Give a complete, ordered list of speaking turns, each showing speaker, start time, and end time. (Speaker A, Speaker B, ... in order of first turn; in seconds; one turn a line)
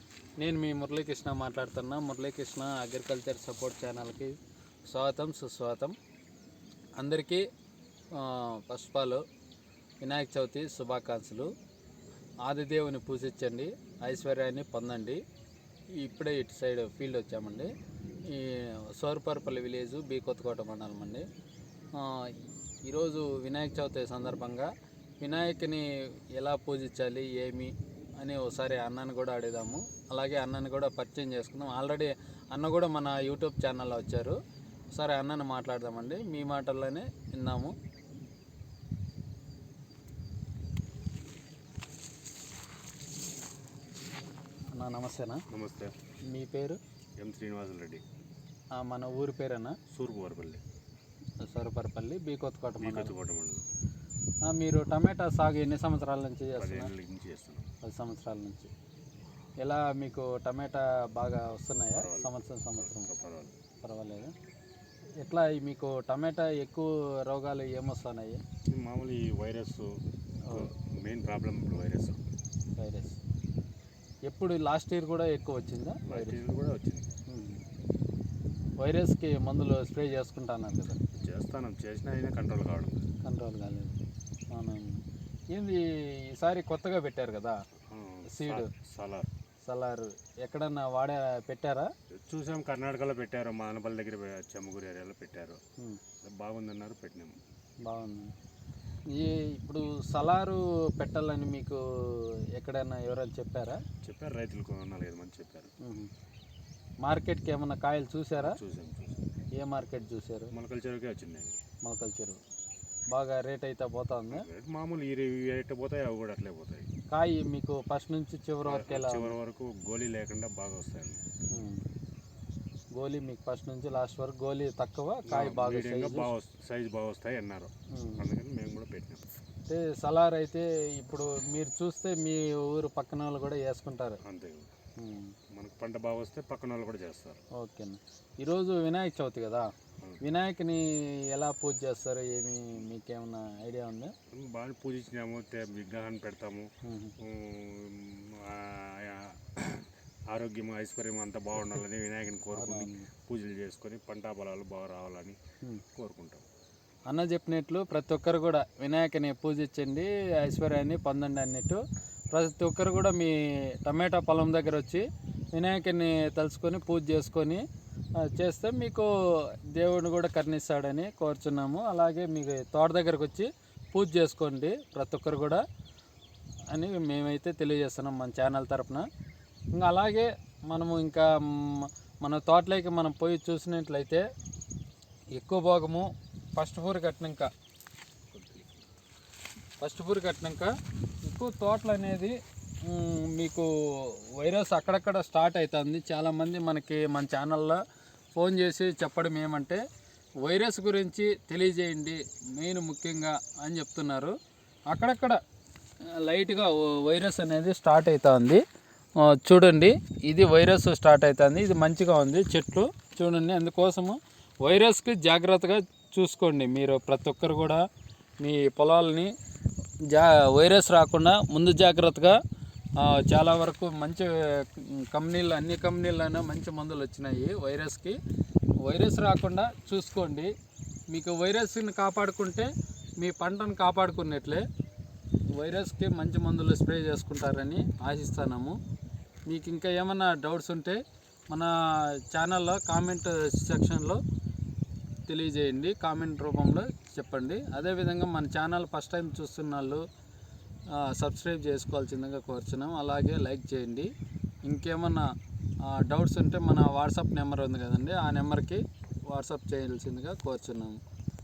Speaker A: 0.4-4.4
Speaker A: 4.9-6.0
Speaker A: 7.0-7.4
Speaker A: 8.1-9.2
Speaker A: 10.0-11.5
Speaker A: 12.4-15.2
Speaker A: 15.9-17.7
Speaker A: 18.3-21.2
Speaker A: 21.9-22.4
Speaker A: 22.9-24.7
Speaker A: 25.2-34.4
Speaker A: 34.9-37.7
Speaker A: 44.7-45.4
Speaker B: 45.5-45.9
Speaker A: 46.3-46.8
Speaker B: 47.2-48.0
Speaker A: 48.7-49.8
Speaker B: 49.9-50.6
Speaker A: 51.4-53.1
Speaker B: 52.8-53.6
Speaker A: 54.4-56.9
Speaker B: 56.6-57.7
Speaker A: 57.8-58.7
Speaker A: 59.6-63.1
Speaker B: 61.9-63.5
Speaker A: 63.8-64.3
Speaker A: 65.2-68.4
Speaker B: 68.7-72.2
Speaker A: 72.8-73.2
Speaker A: 74.3-76.4
Speaker B: 76.1-77.1
Speaker A: 77.3-77.6
Speaker A: 78.8-81.0
Speaker B: 81.1-83.1
Speaker A: 83.2-84.0
Speaker A: 84.5-87.6
Speaker B: 87.9-89.3
Speaker A: 88.3-88.7
Speaker A: 89.7-91.9
Speaker B: 92.2-95.6
Speaker B: 96.2-97.4
Speaker A: 97.8-98.3
Speaker A: 99.1-103.8
Speaker B: 104.0-105.7
Speaker A: 105.8-106.1
Speaker A: 107.0-108.6
Speaker B: 108.4-109.2
Speaker A: 109.6-110.5
Speaker B: 110.5-111.6
Speaker A: 111.8-112.4
Speaker A: 113.1-114.4
Speaker B: 114.3-116.9
Speaker A: 117.1-119.3
Speaker B: 118.6-121.2
Speaker A: 121.5-121.8
Speaker A: 123.0-126.3
Speaker B: 125.2-129.4
Speaker A: 127.9-128.2
Speaker A: 129.7-134.2
Speaker B: 134.2-134.7
Speaker A: 135.0-135.3
Speaker B: 135.5-137.4
Speaker A: 137.6-139.7
Speaker A: 140.2-144.1
Speaker B: 144.3-155.4
Speaker A: 146.8-147.1
Speaker A: 152.5-153.1
Speaker B: 155.9-156.4
Speaker A: 157.1-161.8
Speaker A: 162.3-167.6
Speaker A: 168.3-175.6
Speaker A: 176.7-179.0
Speaker A: 179.8-184.2
Speaker A: 185.3-187.5
Speaker B: 188.3-188.8
Speaker A: 189.8-190.7
Speaker A: 191.2-197.8
Speaker A: 198.3-199.8
Speaker A: 200.4-204.3
Speaker A: 204.9-205.4
Speaker A: 206.2-208.6
Speaker A: 209.2-217.8
Speaker A: 218.4-219.3
Speaker A: 220.1-222.4
Speaker A: 223.0-228.2
Speaker A: 228.8-230.5
Speaker A: 231.1-232.7
Speaker A: 233.2-234.6
Speaker A: 235.5-238.8
Speaker A: 239.5-241.0
Speaker A: 241.5-244.2
Speaker A: 245.3-250.0
Speaker A: 250.9-254.1
Speaker A: 254.6-255.3
Speaker A: 255.8-261.0